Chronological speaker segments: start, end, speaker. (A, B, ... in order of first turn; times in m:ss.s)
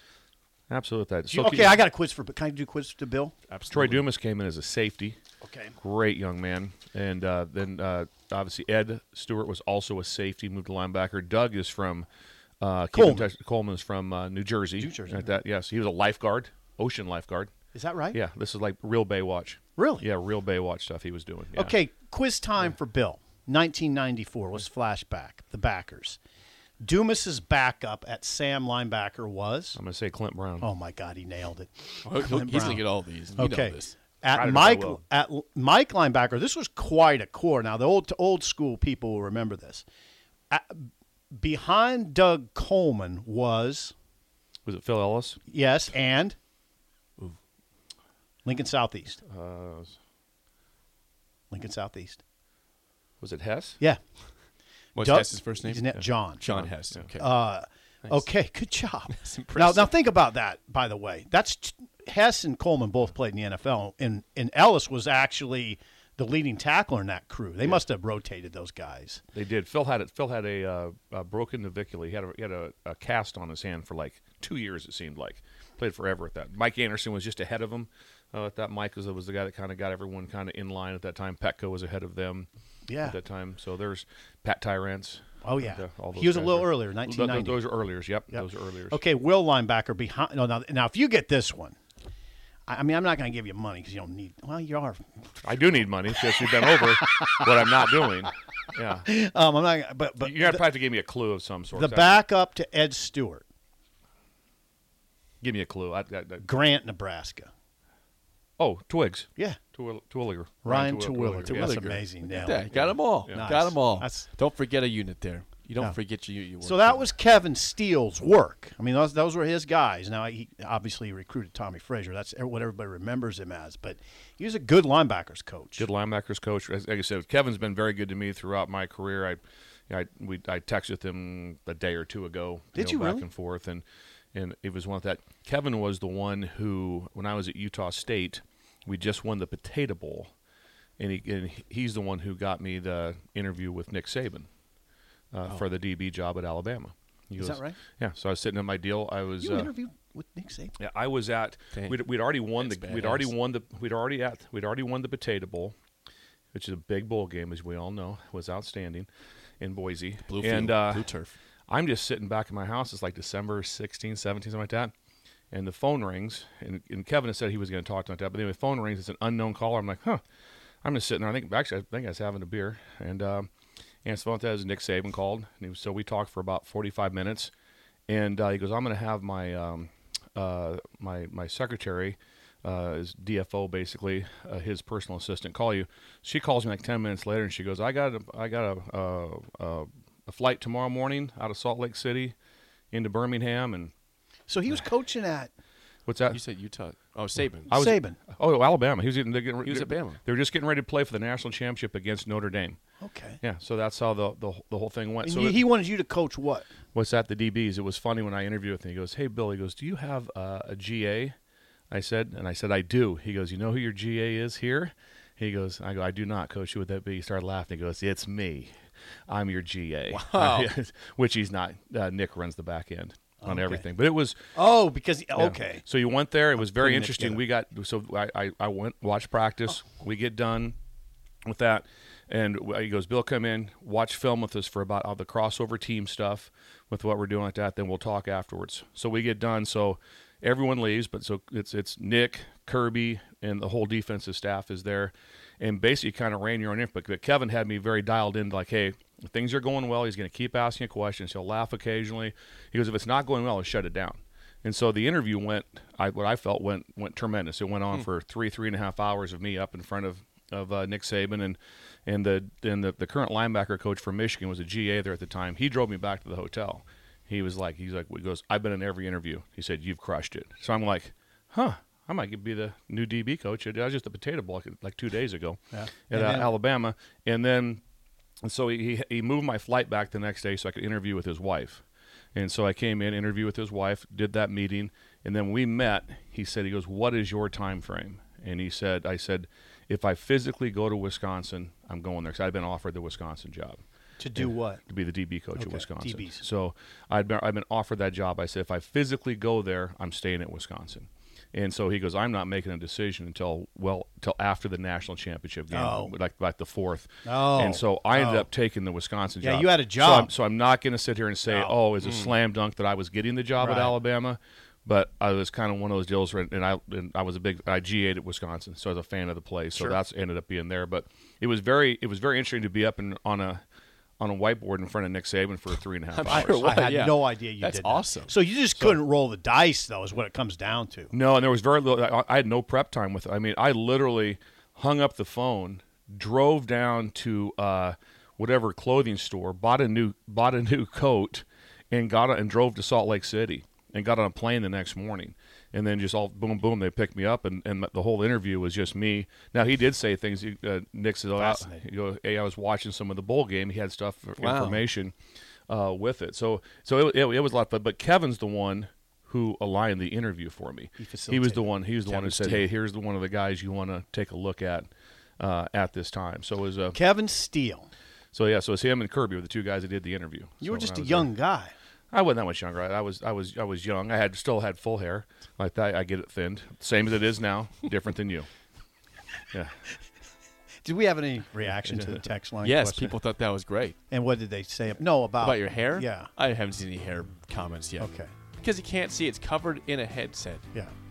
0:00.7-0:01.8 A
0:01.3-0:03.4 B
0:03.5-0:04.0 C
0:03.7-0:05.2 A
0:05.4-0:05.8 B
0:05.8-0:12.1 A
0:12.6-0:17.5 A
0:12.9-0:13.3 B
0:14.8-0:15.3 B
0:17.7-0:18.2 B
0:18.1-0:21.8 A
0:19.8-0:20.1 B
0:21.5-0:26.2 B
0:26.8-0:29.8 B
0:29.8-0:30.7 A
0:30.6-0:39.8 B
0:32.0-0:34.0 C
0:34.3-0:35.0 A
0:40.5-0:44.0 B
0:44.7-0:45.4 A
0:45.5-0:46.4 B
0:48.4-0:49.2 B
0:49.3-0:50.0 A
0:51.5-0:52.2 B
0:53.2-0:53.8 A
0:55.0-0:57.3 C
0:55.0-0:56.4 B
0:56.5-0:57.0 A
0:57.2-1:09.2 B
0:59.1-1:00.0 C
1:09.3-1:22.5 A
1:22.9-1:23.2 B
1:23.0-1:29.0 A
1:25.4-1:27.7 B
1:28.3-1:31.8 B
1:32.7-1:38.1 B
1:35.4-1:39.0 A
1:39.0-1:40.7 B
1:40.2-1:42.2 A
1:41.7-1:43.4 B
1:45.4-1:46.5 A
1:46.4-1:47.5 B
1:48.6-1:51.9 A
1:50.6-1:54.3 B
1:51.4-1:57.1 C
1:56.6-2:05.9 B
2:05.8-2:20.3 A
2:12.8-2:13.3 B
2:21.0-2:24.5 A
2:25.3-2:29.7 A
2:27.4-2:27.8 B
2:29.4-2:30.8 B
2:30.8-2:35.8 A
2:32.5-2:33.3 C
2:36.5-2:39.1 A
2:39.6-2:41.1 A
2:40.2-2:41.4 C
2:41.7-2:44.9 A
2:45.5-2:50.2 A
2:50.8-2:53.5 A
2:54.0-2:57.5 A
2:58.1-3:12.4 A
3:12.9-3:13.9 A
3:14.5-3:15.5 B
3:16.1-3:16.4 A
3:16.3-3:17.7 C
3:17.7-3:22.8 A
3:17.7-3:18.2 B
3:19.6-3:20.2 C
3:23.0-3:23.4 B
3:23.4-3:25.6 A
3:25.2-3:26.7 B
3:26.9-3:31.4 A
3:31.9-3:38.7 A
3:39.3-3:44.4 A
3:40.1-3:40.7 C
3:43.4-3:43.8 B
3:44.5-3:45.8 B
3:45.4-3:50.8 A
3:46.6-3:47.4 B
3:51.5-4:37.8 A
4:35.7-4:36.5 B
4:38.4-4:41.8 A
4:42.4-4:53.8 A
4:54.2-4:54.8 B
4:54.4-5:23.6 A
4:55.6-4:56.4 B
5:05.7-5:06.1 B
5:07.2-5:08.5 B
5:09.4-5:10.3 B
5:11.5-5:11.8 B
5:13.6-5:14.0 B
5:24.2-5:26.8 A
5:26.1-5:28.3 C
5:26.3-5:31.1 B
5:28.8-5:29.0 A
5:31.1-5:55.1 A
5:51.4-5:51.8 B
5:54.4-5:54.8 C
5:55.7-6:04.9 A
6:01.0-6:02.7 B
6:05.4-6:07.0 A
6:06.9-6:07.9 B
6:08.3-6:11.3 A
6:10.6-6:11.7 B
6:12.1-6:18.5 A
6:20.8-6:23.2 B
6:22.6-6:24.0 C
6:24.1-6:26.3 B
6:25.4-6:28.1 C
6:28.0-6:28.3 B
6:28.6-6:30.7 C